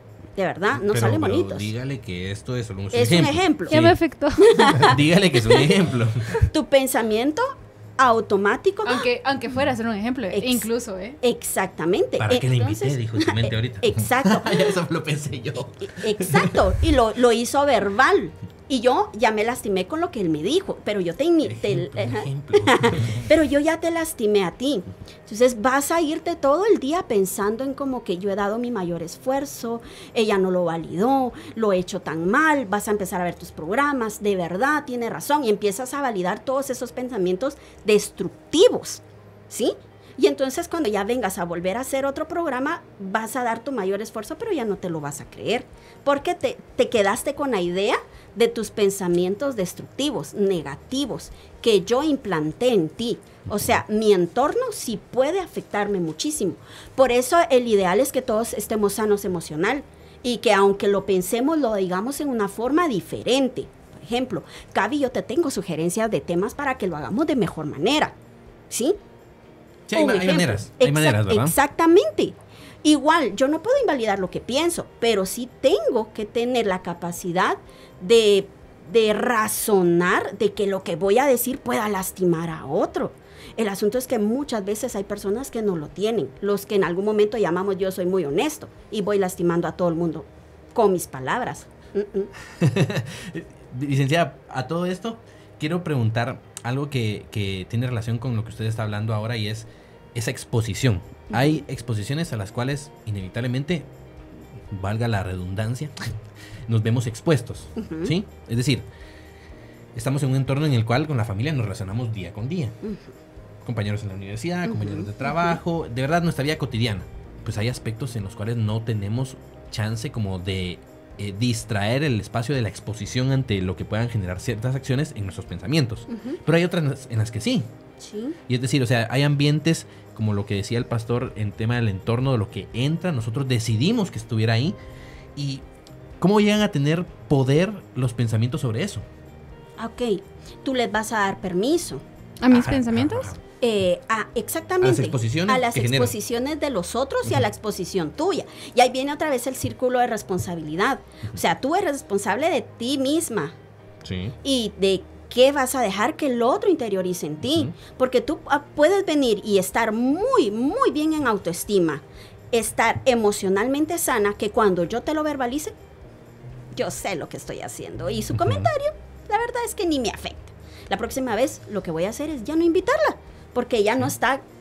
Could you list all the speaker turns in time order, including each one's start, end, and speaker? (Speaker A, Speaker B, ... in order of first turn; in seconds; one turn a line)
Speaker A: 0.3-1.7
Speaker B: 0.7-4.0
Speaker A: 2.9-3.8
Speaker C: 3.7-4.8
Speaker A: 4.4-5.7
Speaker B: 4.5-6.4
Speaker A: 6.3-9.1
Speaker C: 8.8-11.2
Speaker A: 10.3-10.7
Speaker A: 11.2-14.7
Speaker B: 12.2-16.6
Speaker A: 15.9-68.1
Speaker B: 21.4-23.2
Speaker A: 68.7-69.0
Speaker B: 69.9-71.5
Speaker A: 69.9-92.3
Speaker B: 92.6-103.9
Speaker A: 101.3-101.6
Speaker B: 104.7-106.1
Speaker B: 106.7-108.8
Speaker A: 107.8-108.1
Speaker B: 109.9-112.8
Speaker A: 112.8-113.1
Speaker B: 113.6-127.7
Speaker A: 114.7-115.6
Speaker A: 126.1-126.4
Speaker A: 128.0-128.3
Speaker B: 128.5-134.7
Speaker B: 135.3-135.6
Speaker B: 136.2-139.0
Speaker A: 139.8-142.0
Speaker C: 142.4-143.3
Speaker B: 142.5-143.4
Speaker A: 143.6-153.5
Speaker B: 144.8-146.1
Speaker B: 154.0-154.3
Speaker A: 154.4-165.7
Speaker B: 157.4-157.7
Speaker A: 166.7-174.4
Speaker B: 168.3-168.7